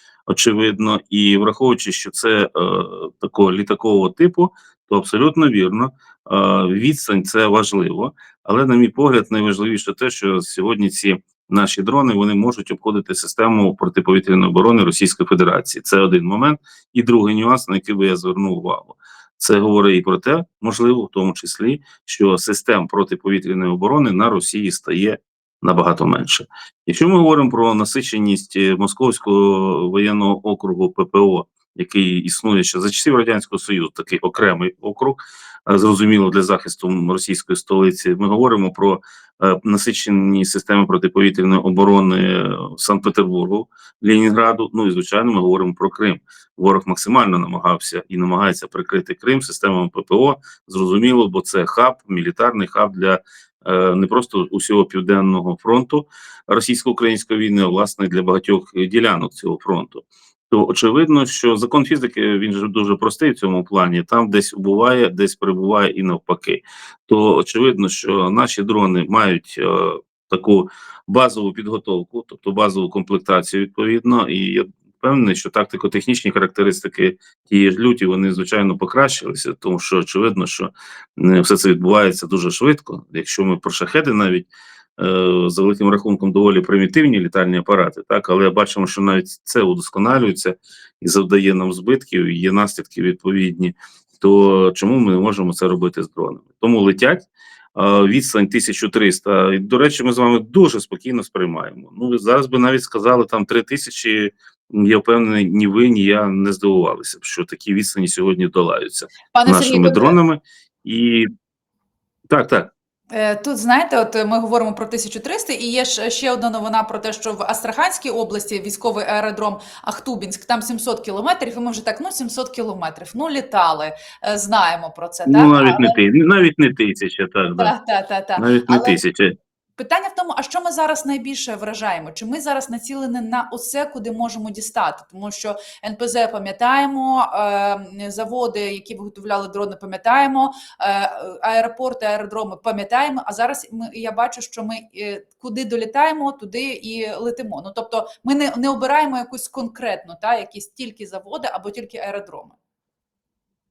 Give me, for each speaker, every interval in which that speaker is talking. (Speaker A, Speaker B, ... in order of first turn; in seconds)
Speaker A: 0.3-111.3, 112.3-112.7, 125.3-127.7, 128.4-129.3
Speaker B: 109.3-110.2, 113.1-126.0, 127.6-129.0, 129.8-152.6